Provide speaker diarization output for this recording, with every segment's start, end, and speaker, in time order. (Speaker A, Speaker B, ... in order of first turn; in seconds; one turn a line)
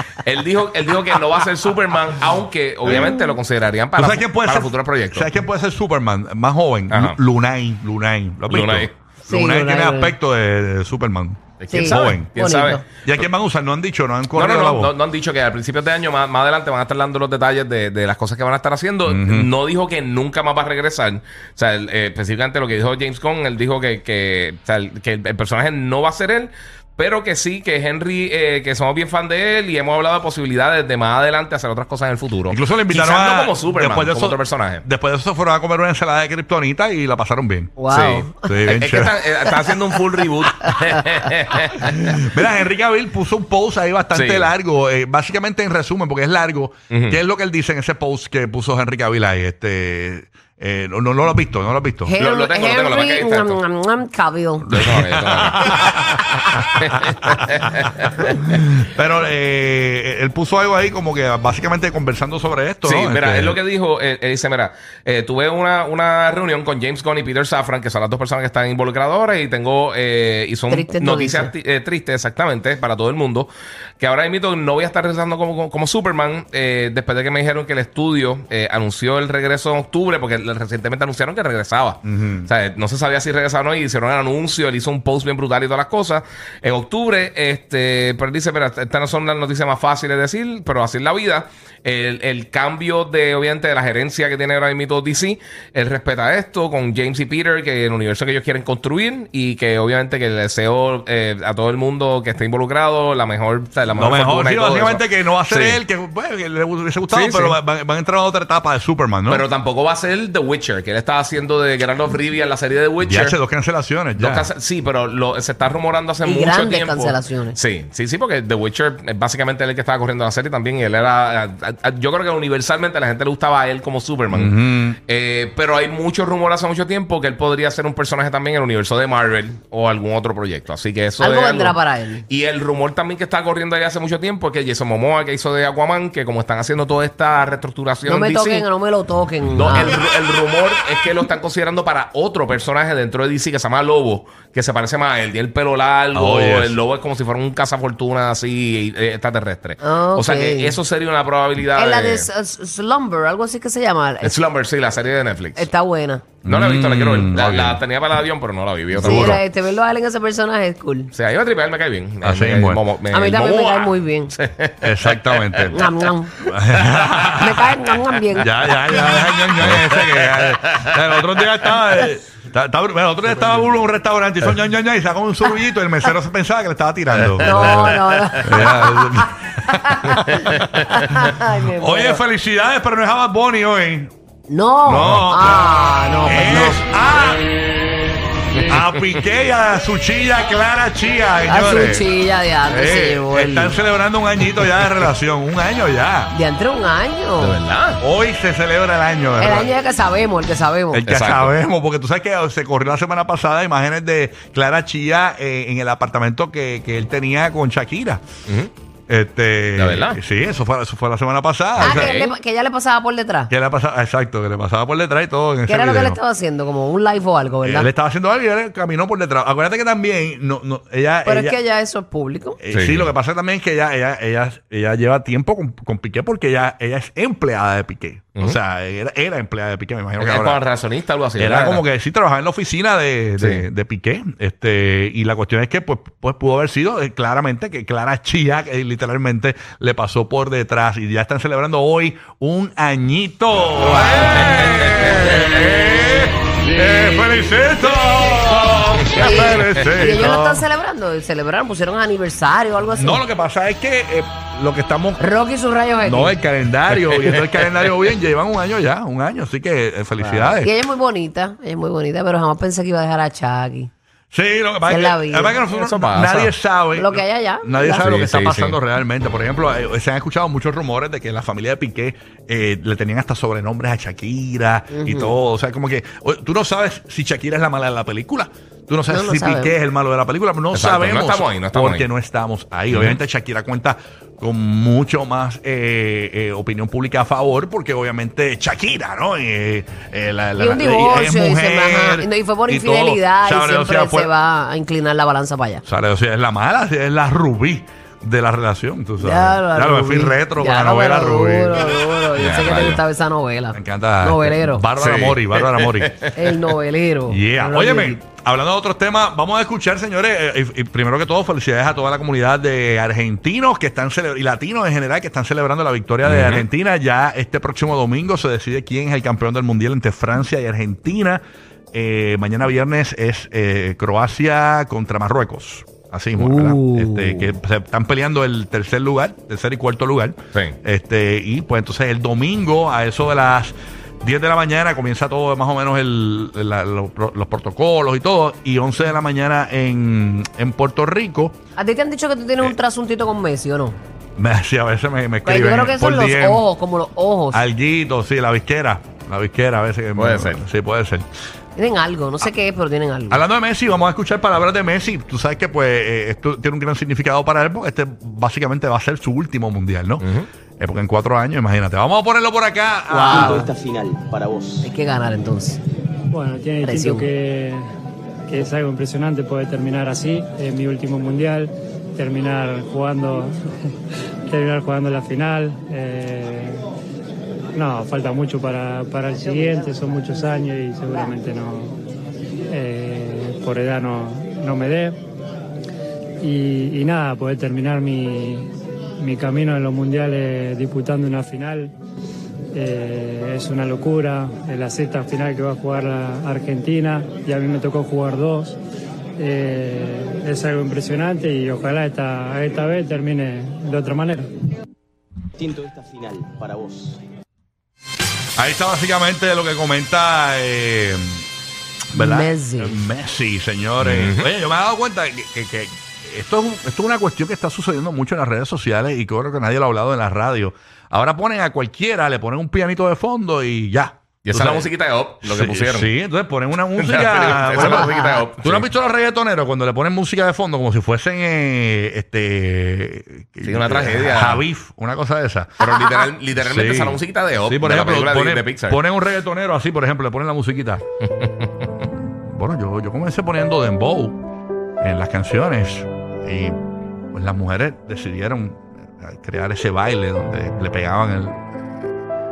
Speaker A: 0.1-5.3
Speaker B: 2.9-3.2
Speaker B: 4.0-12.3
Speaker A: 6.9-7.2
Speaker A: 8.5-8.9
Speaker C: 9.2-10.2
Speaker A: 11.6-12.8
Speaker C: 11.7-12.8
Speaker B: 13.0-14.9
Speaker A: 14.3-34.8
Speaker B: 19.1-19.5
Speaker B: 32.5-37.8
Speaker C: 37.8-38.4
Speaker A: 37.9-42.2
Speaker B: 38.4-39.2
Speaker B: 41.9-52.1
Speaker A: 44.1-44.5
Speaker A: 46.9-47.2
Speaker C: 52.0-54.7
Speaker A: 52.2-53.6
Speaker B: 54.6-57.4
Speaker A: 54.7-55.8
Speaker A: 56.7-58.6
Speaker B: 58.4-63.6
Speaker A: 62.8-105.8
Speaker C: 70.7-71.5
Speaker B: 82.0-82.5
Speaker B: 104.0-109.5
Speaker A: 107.1-107.6
Speaker A: 109.3-113.4
Speaker B: 113.0-114.5
Speaker A: 114.2-138.7
Speaker C: 116.2-117.6
Speaker B: 124.3-125.0
Speaker C: 131.2-132.2
Speaker C: 138.1-140.0
Speaker A: 139.6-152.3
Speaker B: 146.1-146.8
Speaker C: 149.8-150.8
Speaker C: 151.7-154.4
Speaker A: 154.2-155.7
Speaker C: 155.6-156.2
Speaker B: 156.4-157.8
Speaker A: 156.4-159.4
Speaker C: 158.9-161.1
Speaker B: 159.0-159.4
Speaker A: 161.1-167.4
Speaker B: 162.2-162.8
Speaker C: 163.1-164.3
Speaker B: 164.8-165.9
Speaker C: 165.7-166.3
Speaker B: 166.4-167.7
Speaker C: 167.3-168.5
Speaker B: 168.4-184.1
Speaker A: 168.8-171.7
Speaker A: 177.1-178.6
Speaker C: 177.4-182.2
Speaker A: 180.1-181.0
Speaker C: 184.5-186.8
Speaker B: 184.8-187.6
Speaker B: 188.5-192.1
Speaker C: 191.4-193.8
Speaker B: 192.7-196.3
Speaker C: 196.3-197.6
Speaker A: 197.4-198.0
Speaker B: 198.0-199.7
Speaker C: 199.4-201.0
Speaker B: 200.9-208.2
Speaker A: 201.1-201.5
Speaker B: 209.1-212.3
Speaker A: 209.8-210.2
Speaker A: 211.8-212.3
Speaker C: 211.8-213.5
Speaker B: 213.5-216.2
Speaker C: 215.7-217.9
Speaker B: 217.6-221.6
Speaker C: 221.2-222.6
Speaker B: 222.6-230.6
Speaker A: 222.7-223.1
Speaker A: 230.2-231.8
Speaker B: 231.4-250.7
Speaker A: 233.4-233.6
Speaker A: 244.4-245.3
Speaker C: 249.2-253.2
Speaker B: 252.9-255.2
Speaker C: 255.2-256.4
Speaker B: 256.0-260.7
Speaker A: 257.0-257.9
Speaker C: 260.2-263.9
Speaker B: 264.3-294.3
Speaker C: 264.9-265.6
Speaker A: 265.7-266.5
Speaker C: 266.9-268.3
Speaker A: 268.0-268.8
Speaker C: 274.9-275.4
Speaker C: 279.1-279.8
Speaker A: 280.7-282.1
Speaker A: 282.9-283.2
Speaker C: 290.6-295.8
Speaker B: 295.8-302.0
Speaker C: 299.2-304.9
Speaker A: 302.4-303.0
Speaker B: 303.7-306.2
Speaker A: 305.0-306.5
Speaker C: 306.3-308.1
Speaker B: 307.3-341.6
Speaker A: 316.2-316.6
Speaker C: 326.4-327.5
Speaker C: 341.8-343.9
Speaker B: 344.4-346.7
Speaker C: 345.4-347.6
Speaker B: 347.5-351.3
Speaker A: 350.1-350.6
Speaker C: 351.8-353.4
Speaker B: 353.3-360.3
Speaker A: 360.2-360.5
Speaker B: 360.8-363.7
Speaker C: 363.1-363.7
Speaker D: 363.4-364.8
Speaker C: 364.8-365.8
Speaker E: 366.3-367.9
Speaker C: 366.8-367.3
Speaker E: 368.5-373.7
Speaker E: 374.5-376.8
Speaker E: 377.7-381.9
Speaker C: 379.3-380.6
Speaker E: 382.7-385.2
Speaker E: 386.4-388.7
Speaker E: 389.2-391.9
Speaker E: 392.7-398.8
Speaker E: 399.4-404.5
Speaker D: 405.6-407.2
Speaker B: 408.6-411.4
Speaker B: 412.1-424.9
Speaker C: 412.1-413.0
Speaker A: 414.0-414.5
Speaker A: 424.4-426.1
Speaker B: 425.4-435.8
Speaker A: 426.9-428.9
Speaker C: 427.8-428.4
Speaker A: 433.6-434.6
Speaker A: 435.8-439.0
Speaker B: 436.6-441.0
Speaker A: 441.3-442.0
Speaker B: 442.3-444.4
Speaker B: 445.0-446.8
Speaker B: 447.3-451.9